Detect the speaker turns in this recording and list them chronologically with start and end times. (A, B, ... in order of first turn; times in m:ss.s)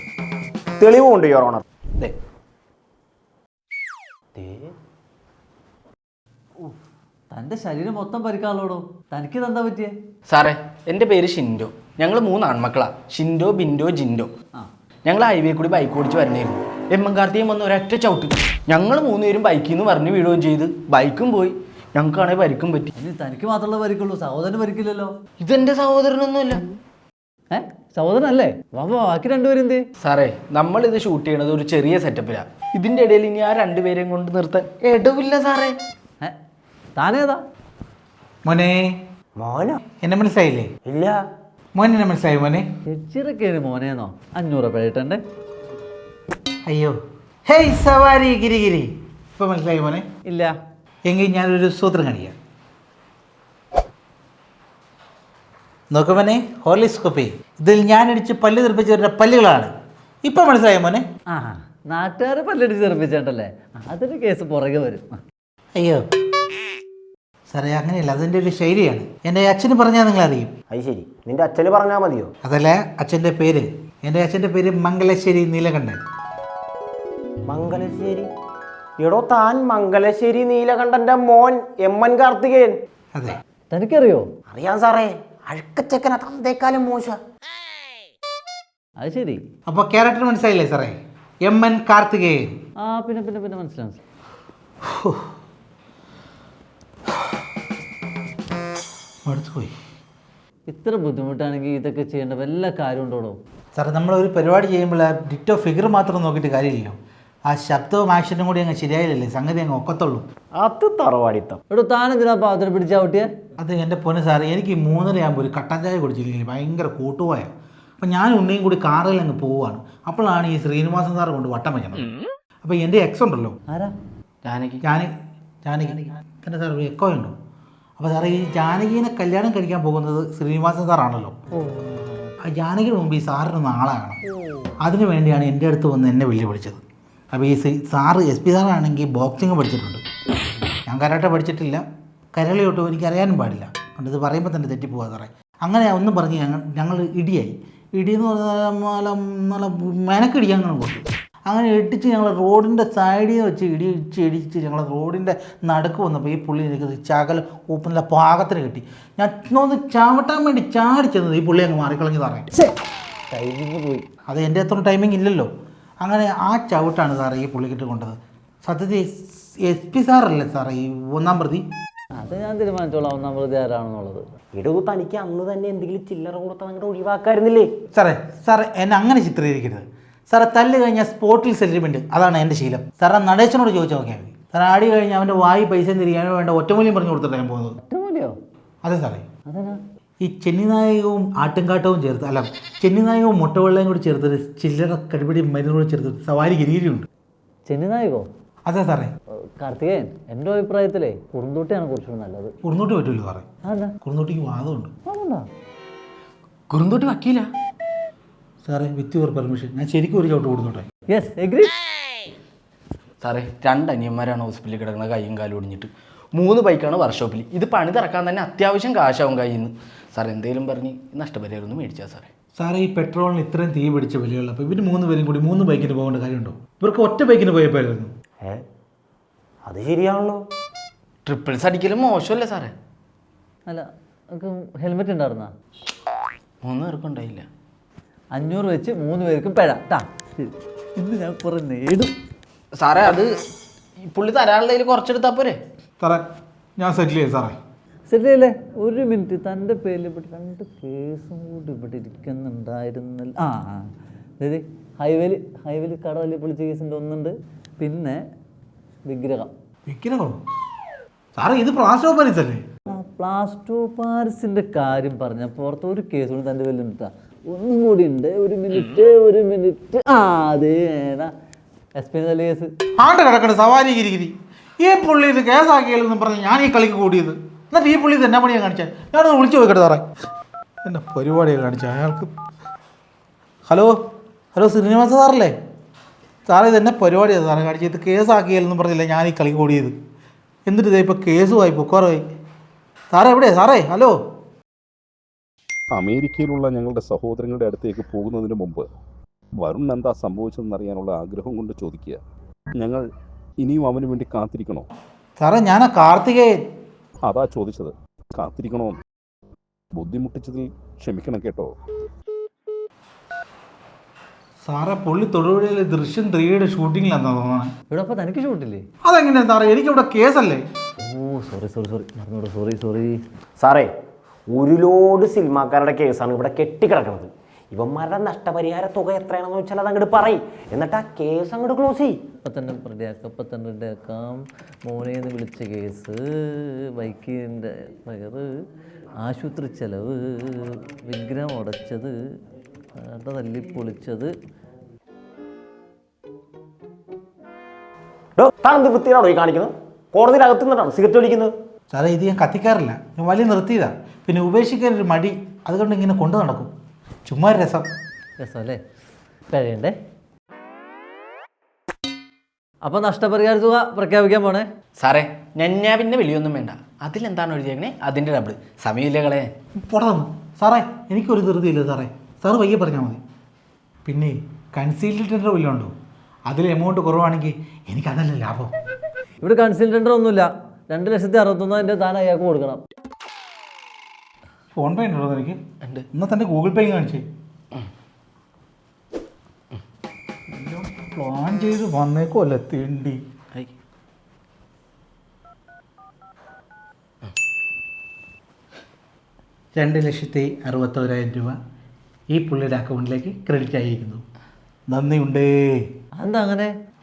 0:00.8-0:02.1 A
0:04.4-0:04.7 A
0:07.3-0:09.9 B
0:10.3-0:14.3 C
0:15.1-0:22.9 C
0:23.0-0:25.1 B
0:25.4-0:26.6 C
0:27.5-0:29.8 B
0:30.0-0:35.7 C
0:37.0-0:37.4 B
0:38.4-0:38.9 D
0:39.4-0:39.8 A
0:39.9-0:40.7 D
0:40.9-0:41.2 A
0:41.8-0:42.6 D
0:42.9-0:45.2 B
0:46.6-0:46.9 D
0:47.4-0:50.0 D
0:50.3-0:50.5 B
0:51.0-0:52.3 D
0:55.9-0:59.7 D
1:00.2-1:01.0 D
1:01.3-1:05.2 B
1:05.8-1:06.0 D
1:07.5-1:10.5 D
1:10.7-1:12.3 A
1:12.4-1:16.0 D
1:17.5-1:18.3 A
1:19.0-1:22.8 A
1:23.7-1:24.2 B
1:24.5-1:27.2 A
1:29.0-1:29.4 B
1:29.7-1:32.5 D
1:32.8-1:34.0 B
1:34.8-1:35.3 D
1:39.2-1:39.7 D
1:40.7-1:43.4 B
1:43.7-1:47.0 D
1:47.5-1:50.2 D
1:50.6-1:51.6 A
1:51.7-1:53.3 B
1:53.6-2:02.0 D
2:02.6-2:03.6 D
2:04.4-2:04.8 C
2:04.8-2:05.1 D
2:05.6-2:07.3 D
2:08.0-2:11.4 D
2:11.6-2:12.2 B
2:12.5-2:14.2 D
2:14.8-2:20.0 D
2:20.8-2:21.8 D
2:22.3-2:42.5 D
2:43.3-2:44.0 B
2:44.3-2:45.5 D
2:46.0-2:51.6 D
2:52.2-2:54.2 B
2:54.5-2:57.7 A
2:57.9-3:07.8 D
3:07.8-3:08.3 B
3:08.8-3:09.3 D
3:09.5-3:09.8 B
3:10.2-3:17.1 D
3:17.7-3:18.2 B
3:18.7-3:19.1 D
3:19.6-3:22.5 B
3:22.6-3:23.4 D
3:23.6-3:23.9 B
3:24.0-3:24.9 D
3:25.1-3:25.4 B
3:26.7-3:27.5 C
3:28.6-3:30.8 D
3:31.1-3:31.7 B
3:33.2-3:42.3 C
3:42.6-3:48.1 D
3:49.6-3:50.4 A
3:51.2-3:52.7 C
3:53.6-3:55.5 B
3:56.6-3:57.4 C
3:58.3-4:02.1 B
4:02.7-4:03.3 C
4:04.0-4:05.6 C
4:06.0-4:06.2 D
4:06.8-4:07.6 D
4:08.1-4:18.2 B
4:19.1-4:19.5 B
4:19.9-4:20.4 D
4:21.4-4:22.6 D
4:22.9-4:31.3 B
4:32.0-4:32.7 B
4:33.0-4:40.1 D
4:40.8-4:42.3 D
4:43.7-4:43.9 D
4:44.5-4:45.5 D
4:46.5-4:49.9 D
4:50.6-4:52.2 D
4:53.1-4:54.2 D
4:55.9-4:58.9 E
4:59.6-5:02.2 E
5:02.8-5:03.0 E
5:03.6-5:04.9 E
5:05.4-5:06.6 D
5:07.2-5:09.0 E
5:10.0-5:11.7 E
5:14.6-5:17.7 D
5:17.9-5:18.8 B
5:19.0-5:20.6 D
5:21.0-5:23.2 B
5:23.6-5:23.9 A
5:24.5-5:32.2 A
5:32.4-5:38.5 B
5:39.2-5:42.1 B
5:43.0-5:44.3 B
5:48.4-5:51.5 A
5:51.9-5:56.7 D
5:57.2-5:57.9 D
5:58.4-5:58.8 B
5:59.5-5:59.9 B
6:02.8-6:04.6 B
6:05.0-6:09.5 C
6:09.8-6:13.2 D
6:14.0-6:15.9 D
6:16.5-6:18.7 D
6:19.4-6:22.8 B
6:24.7-6:25.6 D
6:26.1-6:27.2 D
6:30.5-6:33.2 D
6:39.7-6:41.6 D
6:42.3-6:44.2 D
6:44.9-6:45.8 D
6:46.2-6:46.7 B